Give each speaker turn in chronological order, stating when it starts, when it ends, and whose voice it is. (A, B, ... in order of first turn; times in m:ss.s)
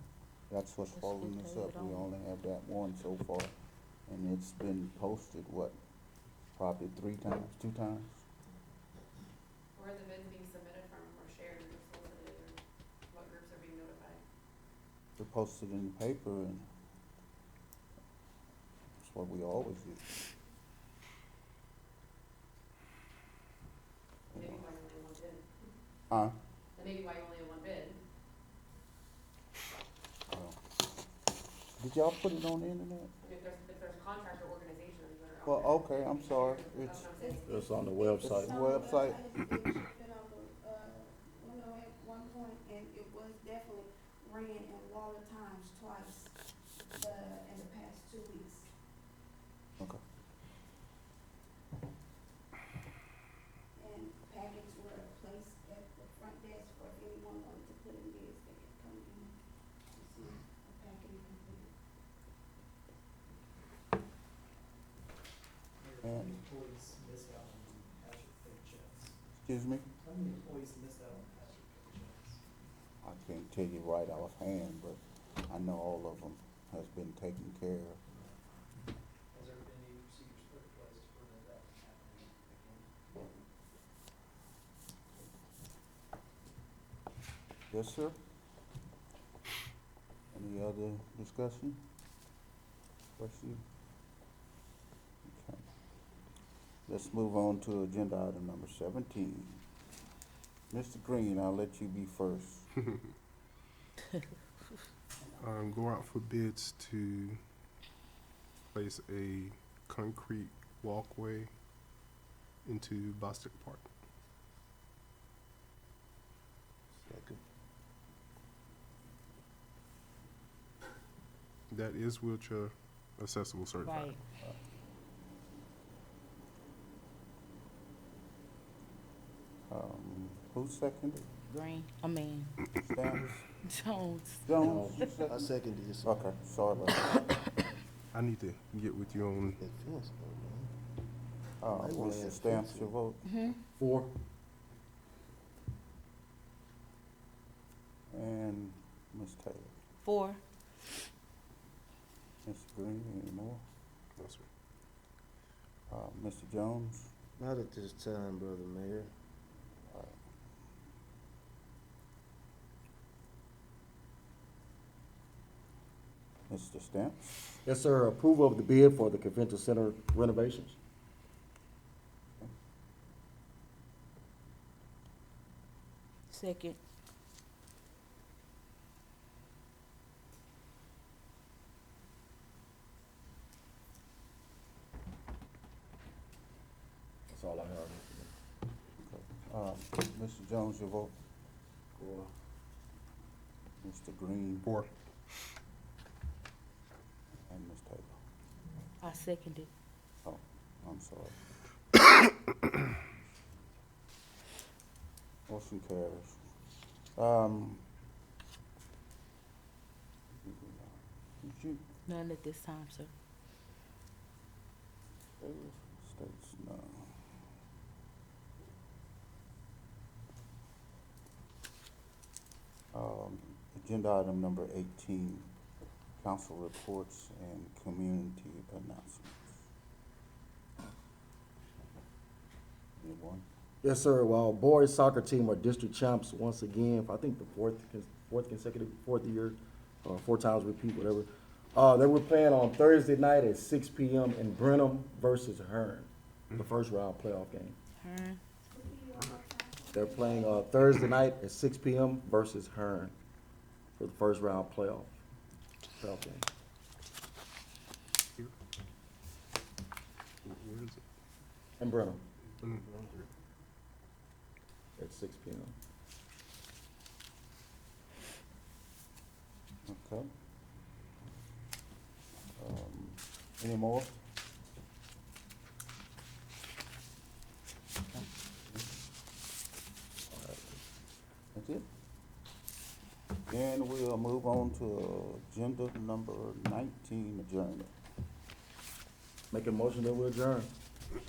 0:00.5-0:03.5 A
0:01.0-0:01.9 B
0:04.1-0:05.8 A
0:06.6-0:08.2 A
0:09.8-0:12.6 C
0:13.1-0:14.2 C
0:15.2-0:16.7 A
0:19.0-0:20.1 A
0:24.3-0:24.8 A
0:24.4-0:25.5 C
0:26.1-0:26.4 A
0:26.8-0:28.0 C
0:30.3-0:30.6 A
0:31.8-0:33.1 A
0:33.2-0:37.6 C
0:35.4-0:37.1 A
0:37.2-0:46.3 D
0:37.4-0:38.7 E
0:38.2-0:39.2 A
0:46.9-0:48.7 D
0:53.8-0:59.3 D
0:59.9-1:01.7 D
1:05.8-1:09.1 F
1:06.0-1:06.4 A
1:09.4-1:09.9 A
1:10.0-1:12.4 F
1:13.0-1:18.0 A
1:19.3-1:22.9 F
1:27.7-1:28.2 A
1:30.3-1:31.8 A
1:33.2-1:33.6 A
1:35.2-1:35.6 A
1:36.9-1:39.6 A
1:40.7-1:42.7 A
1:45.4-1:47.4 G
1:48.7-1:51.5 G
1:52.6-1:53.9 G
1:57.0-1:57.4 H
2:01.7-2:04.2 G
2:09.7-2:11.3 A
2:11.5-2:12.5 B
2:12.8-2:13.4 A
2:13.8-2:14.2 B
2:14.4-2:15.5 A
2:14.6-2:15.0 E
2:15.2-2:16.3 H
2:16.0-2:17.1 A
2:18.1-2:19.6 G
2:19.6-2:20.7 H
2:21.6-2:23.3 A
2:21.7-2:23.0 H
2:23.2-2:23.6 B
2:23.8-2:24.1 E
2:28.1-2:29.8 A
2:30.0-2:30.4 B
2:32.4-2:33.6 A
2:34.2-2:34.5 G
2:35.9-2:37.1 A
2:37.4-2:39.1 H
2:39.9-2:40.2 A
2:46.5-2:47.4 A
2:47.6-2:50.8 E
2:56.3-2:56.8 B
3:07.3-3:08.3 E
3:09.0-3:11.1 A
3:12.0-3:12.3 E
3:13.8-3:14.7 A
3:14.6-3:14.9 G
3:17.4-3:18.2 A
3:19.0-3:19.7 B
3:20.2-3:21.4 A
3:25.5-3:26.4 A
3:27.2-3:27.8 A
3:30.3-3:31.8 A
3:32.1-3:33.1 B
3:35.4-3:37.2 A
3:42.9-3:45.5 A
3:46.2-3:49.6 A
3:53.0-3:53.4 A
3:53.8-4:07.8 E
4:08.0-4:08.4 B
4:08.7-4:10.6 D
4:09.9-4:13.1 E
4:14.0-4:15.2 E
4:16.0-4:16.4 E
4:20.4-4:21.0 G
4:21.8-4:22.2 E
4:22.6-4:23.0 G
4:22.8-4:23.1 H
4:25.0-4:25.7 E
4:29.9-4:30.3 A
4:32.6-4:34.2 A
4:38.1-4:38.9 A
4:40.3-4:40.8 E
4:41.5-4:41.8 A
4:43.5-4:47.9 A
4:49.5-4:50.7 E